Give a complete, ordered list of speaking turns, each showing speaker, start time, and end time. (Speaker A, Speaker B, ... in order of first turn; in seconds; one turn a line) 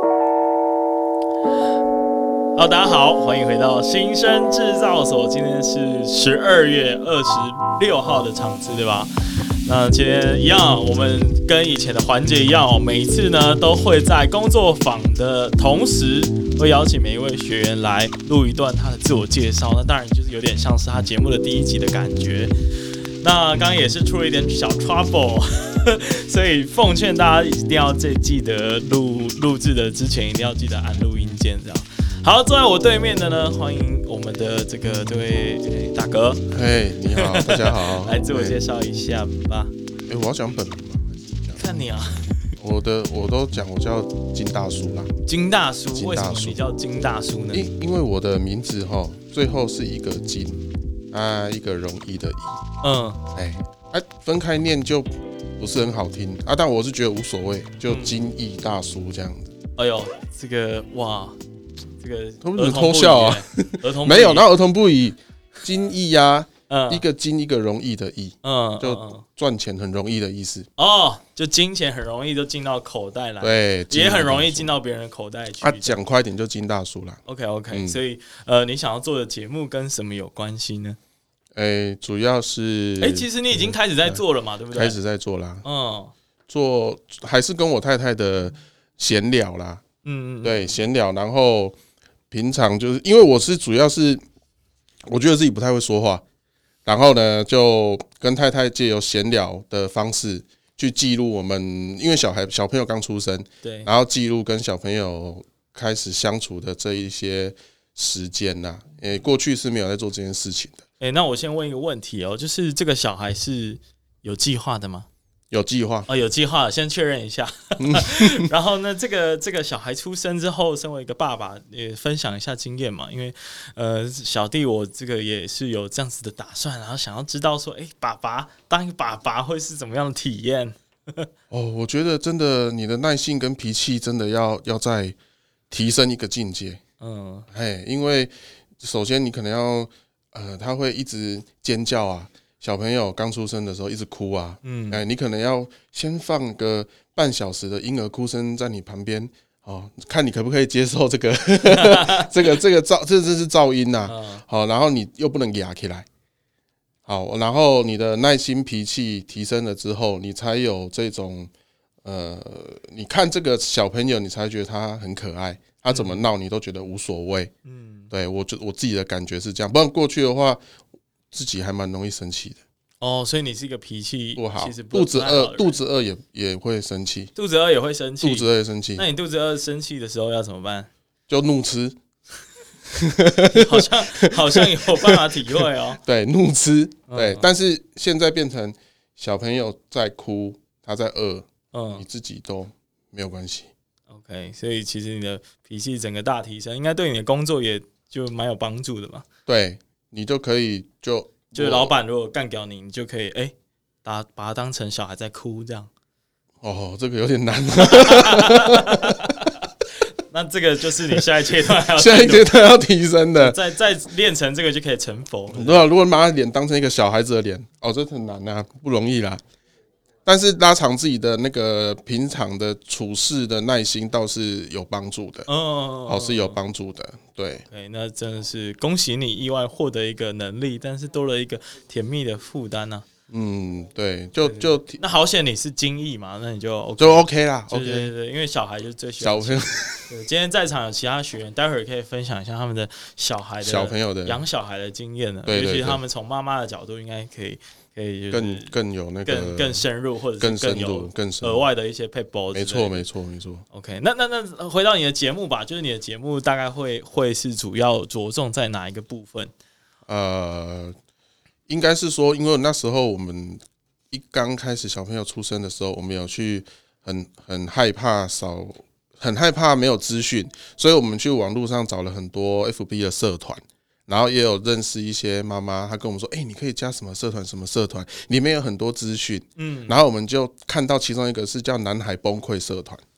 Speaker A: 2.6-9.1
Speaker A: 9.7-22.5
Speaker A: 23.2-36.5
Speaker B: 36.5-38.6
Speaker A: 37.1-39.7
Speaker B: 40.1-41.6
Speaker A: 41.5-42.5
Speaker B: 42.6-45.1
Speaker A: 45.3-47.6
Speaker B: 45.9-46.6
Speaker B: 47.5-52.6
Speaker A: 52.8-53.2
Speaker B: 53.4-59.5
Speaker A: 57.9-58.2
Speaker A: 59.8-61.4
Speaker A: 62.0-64.5
Speaker B: 62.4-70.7
Speaker A: 66.7-67.0
Speaker A: 68.4-69.2
Speaker A: 70.8-76.0
Speaker B: 73.4-74.8
Speaker B: 75.6-77.2
Speaker A: 77.3-81.0
Speaker B: 77.7-78.0
Speaker B: 81.5-84.2
Speaker A: 83.0-85.0
Speaker B: 84.7-85.7
Speaker A: 85.6-86.1
Speaker B: 86.5-89.8
Speaker A: 90.0-90.8
Speaker B: 90.4-91.8
Speaker B: 92.3-94.2
Speaker B: 95.1-96.2
Speaker B: 96.9-110.8
Speaker A: 103.6-103.9
Speaker A: 111.0-115.1
Speaker B: 115.5-116.1
Speaker A: 116.1-131.3
Speaker B: 117.8-118.5
Speaker B: 131.5-135.2
Speaker B: 135.7-136.8
Speaker A: 137.0-137.5
Speaker B: 137.5-156.1
Speaker A: 144.6-145.0
Speaker A: 151.7-152.4
Speaker A: 154.1-154.4
Speaker B: 157.1-161.5
Speaker B: 162.0-167.5
Speaker A: 165.9-166.2
Speaker A: 167.7-168.1
Speaker B: 168.1-170.6
Speaker B: 171.3-172.6
Speaker A: 173.0-175.8
Speaker B: 174.4-177.3
Speaker A: 177.3-180.9
Speaker B: 178.2-179.1
Speaker B: 181.3-181.9
Speaker B: 182.9-193.7
Speaker A: 183.5-186.0
Speaker A: 187.1-187.5
Speaker A: 191.7-192.0
Speaker A: 194.1-199.3
Speaker B: 199.5-201.9
Speaker A: 201.5-203.5
Speaker A: 204.0-205.9
Speaker B: 206.6-209.2
Speaker A: 207.9-209.6
Speaker A: 210.3-212.6
Speaker B: 211.9-213.6
Speaker A: 213.4-215.8
Speaker B: 215.5-219.4
Speaker B: 220.3-225.5
Speaker A: 225.5-226.6
Speaker B: 226.1-227.7
Speaker A: 227.7-233.1
Speaker B: 233.3-235.0
Speaker A: 234.4-248.7
Speaker B: 237.0-238.1
Speaker B: 239.2-240.1
Speaker B: 243.6-244.4
Speaker B: 245.5-246.0
Speaker B: 248.3-249.9
Speaker A: 249.3-253.1
Speaker B: 250.4-251.7
Speaker B: 252.5-253.6
Speaker A: 253.7-259.5
Speaker B: 260.1-260.9
Speaker B: 261.7-283.0
Speaker A: 279.6-279.9